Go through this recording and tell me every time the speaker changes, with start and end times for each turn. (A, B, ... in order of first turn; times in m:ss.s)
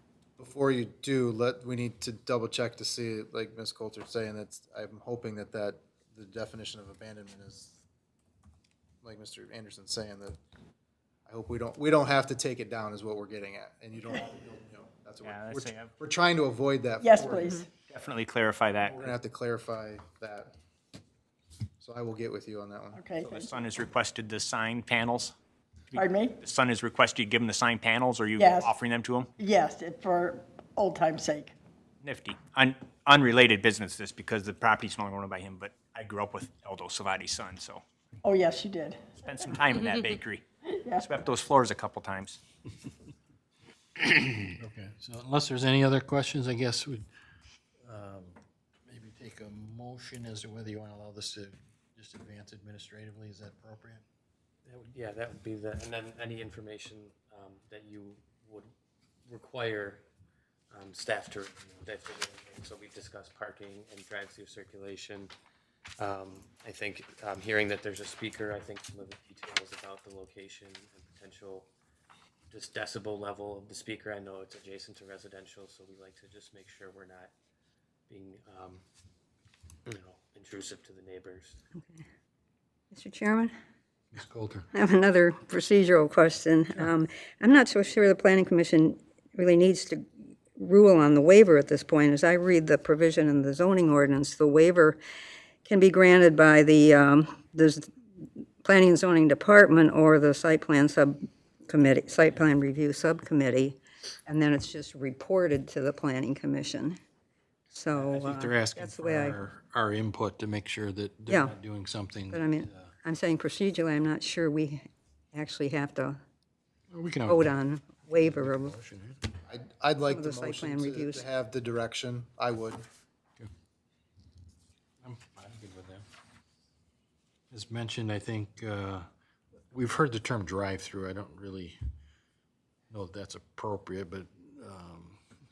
0:00.4-0:07.8 A
0:09.0-0:10.4 A
0:11.3-0:17.6 A
0:15.2-0:15.9 B
0:17.0-0:17.7 C
0:17.8-0:19.1 B
0:18.8-0:20.5 A
0:21.8-0:23.0 A
0:23.0-0:23.5 C
0:23.2-0:25.3 B
0:25.9-0:29.3 B
0:25.9-0:26.4 C
0:28.4-0:28.7 C
0:29.4-0:31.5 C
0:32.0-0:37.8 B
0:38.2-0:39.2 C
0:39.2-0:40.4 B
0:40.7-0:41.1 C
0:41.0-0:42.4 B
0:44.5-0:47.0 D
0:47.8-0:54.0 D
0:54.6-0:58.7 E
0:59.3-1:00.0 E
1:00.7-1:05.3 E
1:06.0-1:11.7 E
1:12.5-1:17.3 E
1:18.1-1:18.8 E
1:19.8-1:21.6 E
1:21.8-1:22.0 F
1:22.9-1:23.5 F
1:24.1-1:24.6 D
1:24.7-1:30.0 F
1:30.6-1:35.0 F
1:35.6-1:37.9 F
1:38.6-1:47.0 F
1:47.7-1:49.4 F
1:47.9-1:52.9 D
1:51.3-1:51.5 F
1:52.3-1:56.2 F
1:56.9-1:57.5 D
1:57.3-1:58.8 F
1:58.0-1:59.2 D
1:59.5-2:02.8 A
2:00.1-2:01.2 F
2:05.0-2:06.0 D
2:07.5-2:09.0 D
2:09.7-2:11.8 D
2:12.9-2:15.2 D